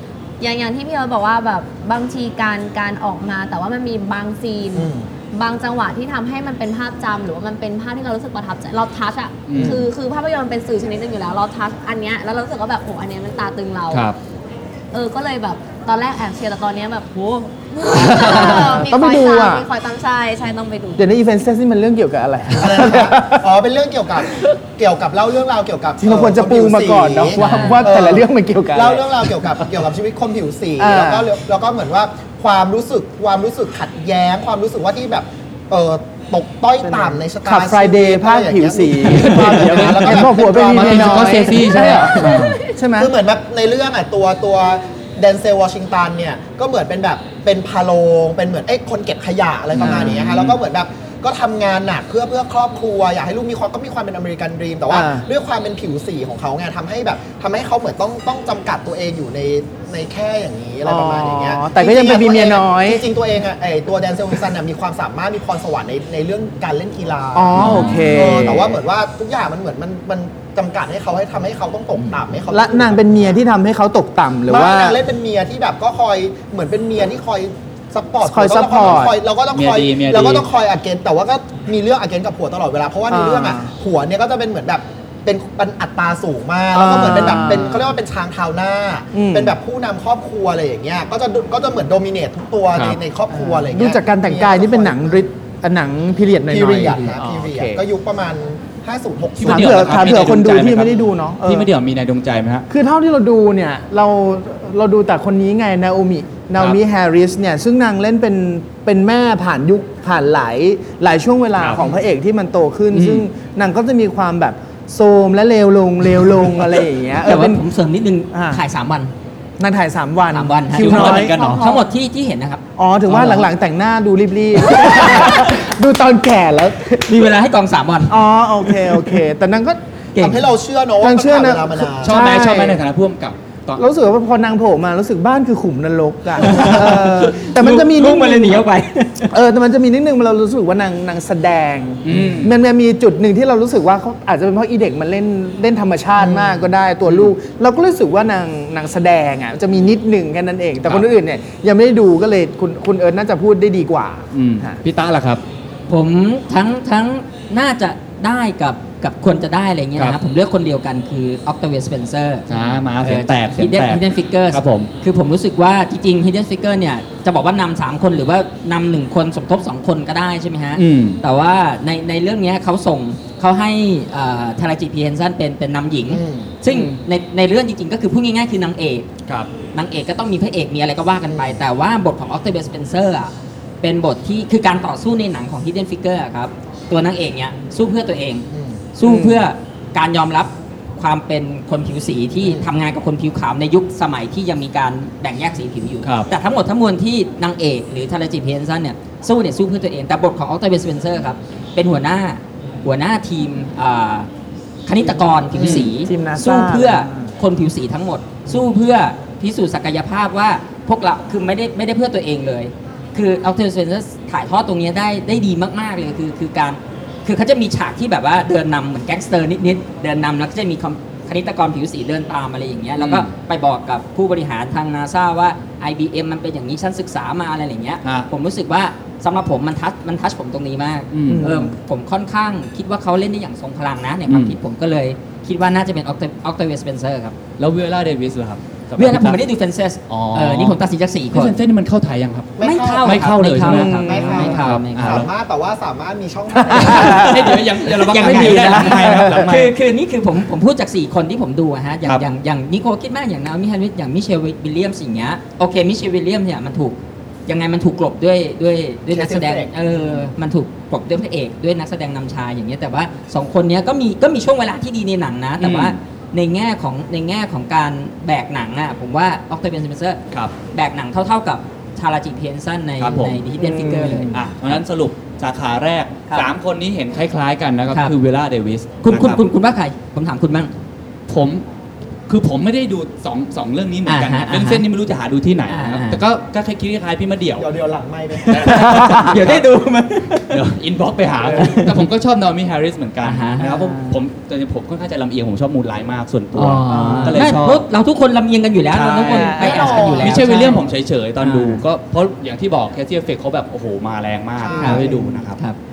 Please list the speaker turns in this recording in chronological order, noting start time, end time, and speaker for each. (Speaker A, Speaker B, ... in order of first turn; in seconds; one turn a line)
Speaker A: 0.4-14.0
Speaker B: 4.7-5.1
Speaker C: 9.5-9.8
Speaker C: 13.9-14.2
Speaker A: 14.9-21.1
Speaker D: 17.9-19.6
Speaker D: 21.0-23.4
Speaker B: 22.5-42.0
Speaker D: 26.0-29.4
Speaker E: 27.4-27.7
Speaker A: 27.4-27.8
Speaker D: 30.8-31.3
Speaker D: 36.9-43.1
Speaker C: 39.0-42.7
Speaker A: 42.2-42.7
Speaker B: 43.0-73.4
Speaker C: 49.7-50.6
Speaker D: 49.8-50.1
Speaker D: 54.9-55.2
Speaker D: 60.8-63.0
Speaker D: 67.3-68.8
Speaker C: 67.5-68.5
Speaker D: 72.5-75.0
Speaker B: 74.5-95.2
Speaker D: 78.2-79.1
Speaker C: 79.5-80.5
Speaker D: 83.1-83.7
Speaker D: 86.7-87.9
Speaker D: 89.1-89.5
Speaker D: 93.3-97.8
Speaker B: 96.5-100.3
Speaker C: 99.4-102.7
Speaker D: 99.4-101.7
Speaker D: 102.7-117.6
Speaker C: 112.9-113.2
Speaker E: 117.2-119.1
Speaker D: 118.3-118.6
Speaker D: 119.6-121.4
Speaker E: 120.3-122.6
Speaker C: 120.7-121.7
Speaker A: 121.2-121.8
Speaker D: 122.8-127.2
Speaker C: 123.1-123.5
Speaker E: 127.0-128.2
Speaker D: 128.1-129.8
Speaker E: 130.1-130.4
Speaker B: 130.2-132.2
Speaker D: 131.0-132.8
Speaker C: 132.0-133.8
Speaker D: 133.8-138.6
Speaker E: 136.4-139.3
Speaker C: 136.5-136.8
Speaker D: 139.3-154.8
Speaker C: 142.0-142.5
Speaker B: 146.2-146.6
Speaker C: 147.1-147.3
Speaker C: 154.3-155.4
Speaker E: 155.9-162.5
Speaker C: 162.5-164.9
Speaker E: 163.0-179.1
Speaker C: 170.8-171.2
Speaker B: 176.1-176.5
Speaker E: 179.7-204.3
Speaker B: 181.3-181.6
Speaker B: 188.5-188.8
Speaker D: 189.0-189.5
Speaker B: 192.4-192.7
Speaker C: 196.0-196.3
Speaker E: 204.8-237.3
Speaker C: 205.6-205.9
Speaker D: 205.6-207.3
Speaker C: 223.0-223.3
Speaker C: 231.1-231.5
Speaker D: 231.2-231.7
Speaker C: 234.3-234.6
Speaker C: 237.6-239.4
Speaker E: 239.0-241.6
Speaker C: 240.1-240.8
Speaker C: 241.3-245.3
Speaker B: 242.6-243.3
Speaker E: 242.6-245.2
Speaker D: 243.6-244.5
Speaker B: 244.1-247.4
Speaker D: 246.6-247.5
Speaker C: 246.8-249.7
Speaker E: 246.8-274.8
Speaker D: 248.1-249.5
Speaker B: 259.1-259.7
Speaker C: 265.6-265.9
Speaker C: 273.0-273.4
Speaker D: 273.6-274.4
Speaker C: 274.3-279.4
Speaker E: 279.0-280.7
Speaker C: 281.3-281.6
Speaker C: 282.3-287.7
Speaker E: 284.1-284.8
Speaker E: 285.7-286.2
Speaker B: 287.6-288.8
Speaker C: 288.5-289.6
Speaker E: 288.6-290.6
Speaker D: 288.9-289.2
Speaker C: 290.5-297.8
Speaker E: 291.5-292.0
Speaker E: 293.2-293.9
Speaker D: 293.6-294.1
Speaker E: 296.6-300.8
Speaker D: 296.9-297.5
Speaker C: 298.9-305.6
Speaker D: 299.0-300.7
Speaker B: 299.5-300.7
Speaker E: 301.4-301.8
Speaker B: 304.6-305.3
Speaker E: 304.8-305.8